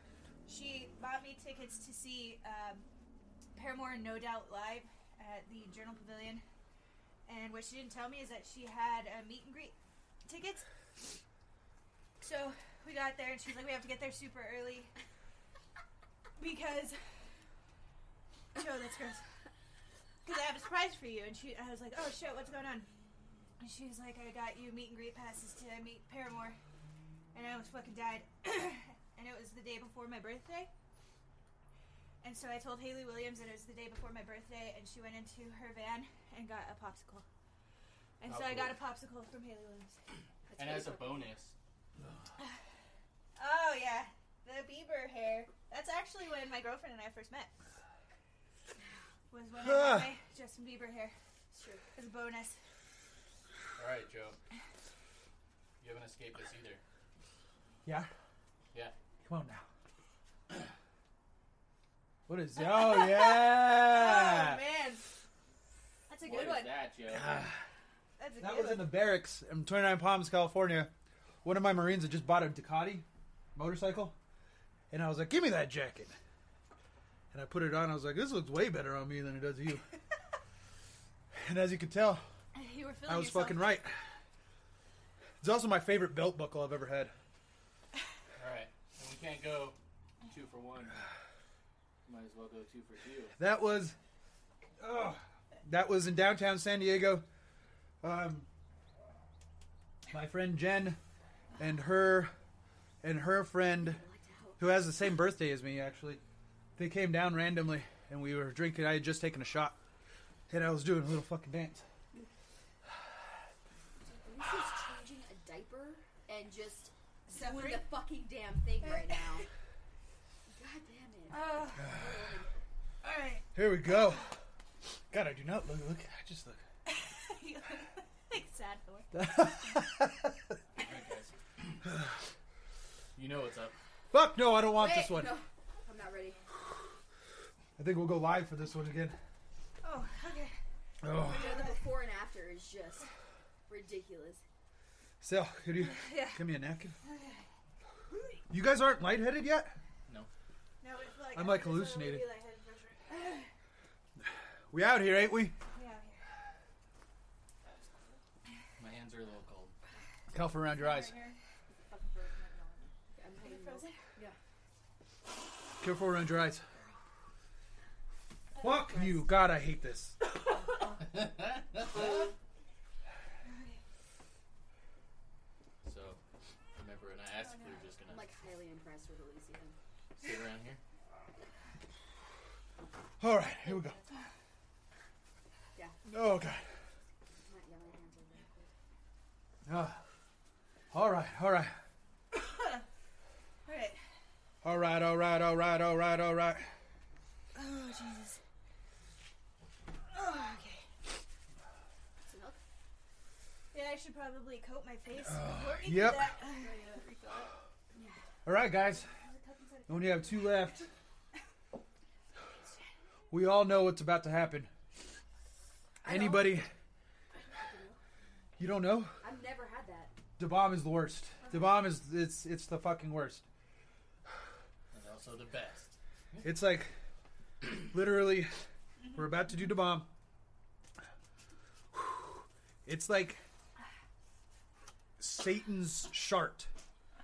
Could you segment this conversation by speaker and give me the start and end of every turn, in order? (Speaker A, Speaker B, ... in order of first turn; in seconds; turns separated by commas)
Speaker A: 0.5-2.9, Speaker A: 3.5-6.4, Speaker A: 7.3-10.6, Speaker A: 12.2-14.9, Speaker A: 16.4-17.0, Speaker A: 18.5-19.2, Speaker A: 20.2-22.9, Speaker A: 23.6-26.6, Speaker A: 27.3-30.7, Speaker A: 32.2-37.2, Speaker A: 38.2-40.0, Speaker B: 38.3-38.8, Speaker C: 40.5-41.4, Speaker B: 40.6-41.5, Speaker A: 43.4-47.5, Speaker A: 49.3-51.1, Speaker D: 49.6-50.1, Speaker C: 51.5-51.8, Speaker A: 52.0-52.6, Speaker B: 53.8-54.4, Speaker B: 55.8-56.8, Speaker D: 59.2-59.6, Speaker D: 62.3-64.6, Speaker A: 62.6-65.0, Speaker A: 66.1-66.9, Speaker B: 66.2-67.5, Speaker D: 67.1-67.6, Speaker A: 68.2-69.0, Speaker D: 68.4-70.9, Speaker D: 71.4-74.2, Speaker D: 74.9-76.2, Speaker D: 77.3-79.9, Speaker D: 81.3-82.2, Speaker A: 82.5-83.8, Speaker D: 83.1-83.9, Speaker D: 85.4-87.1, Speaker B: 88.4-91.0, Speaker B: 92.1-93.4, Speaker D: 93.4-94.0, Speaker D: 94.8-97.2, Speaker D: 98.0-98.5, Speaker D: 100.1-101.0, Speaker D: 101.6-102.3, Speaker D: 103.0-104.0, Speaker C: 103.8-104.6, Speaker D: 104.6-106.2, Speaker D: 106.8-109.8, Speaker D: 110.5-111.8, Speaker C: 114.0-119.5, Speaker A: 117.3-117.9, Speaker C: 120.5-122.5, Speaker A: 121.3-121.9, Speaker D: 121.8-122.1, Speaker A: 123.0-124.2, Speaker D: 123.5-124.3, Speaker D: 125.1-126.6, Speaker A: 126.9-129.4, Speaker D: 129.1-130.4, Speaker B: 130.8-131.8, Speaker B: 133.2-133.8, Speaker D: 134.1-135.4, Speaker C: 134.6-136.5, Speaker D: 137.8-139.2, Speaker A: 139.8-140.6, Speaker D: 141.0-141.5, Speaker C: 141.1-143.1, Speaker A: 141.2-141.9, Speaker C: 143.7-144.4, Speaker D: 145.2-147.0, Speaker A: 145.8-146.5, Speaker A: 147.0-147.5, Speaker A: 148.1-148.4, Speaker D: 148.5-149.8, Speaker A: 150.8-153.5, Speaker D: 151.3-152.3, Speaker D: 154.2-155.6, Speaker A: 155.7-156.2, Speaker B: 158.8-159.7, Speaker D: 160.3-161.2, Speaker E: 160.7-162.9, Speaker C: 163.1-164.4, Speaker A: 163.4-164.0, Speaker D: 165.8-166.7, Speaker D: 168.6-170.2, Speaker C: 168.6-169.3, Speaker C: 170.6-171.2, Speaker B: 171.0-172.3, Speaker C: 171.9-172.3, Speaker A: 173.4-173.8, Speaker B: 175.8-176.2, Speaker B: 176.8-178.3, Speaker E: 177.5-177.9, Speaker C: 178.1-179.8, Speaker B: 180.2-180.8, Speaker D: 183.2-184.0, Speaker E: 183.6-184.1, Speaker D: 186.1-186.6, Speaker C: 187.4-188.7, Speaker D: 189.7-190.0, Speaker D: 190.9-191.8, Speaker A: 192.3-192.8, Speaker A: 193.7-194.0, Speaker D: 194.6-196.7, Speaker A: 197.6-198.4, Speaker A: 200.1-200.8, Speaker C: 202.2-202.6, Speaker A: 203.7-207.0, Speaker D: 205.3-206.3, Speaker E: 206.6-207.5, Speaker C: 206.7-207.1, Speaker D: 208.4-209.1, Speaker A: 209.0-210.7, Speaker D: 209.9-210.9, Speaker D: 213.3-214.7, Speaker C: 216.0-216.7, Speaker D: 216.0-216.7, Speaker C: 217.3-218.0, Speaker D: 218.6-219.2, Speaker C: 219.2-220.2, Speaker D: 220.4-223.4, Speaker B: 224.9-226.5, Speaker D: 226.4-226.9, Speaker D: 227.6-228.5, Speaker D: 229.1-230.1, Speaker D: 232.8-233.4, Speaker D: 235.2-236.7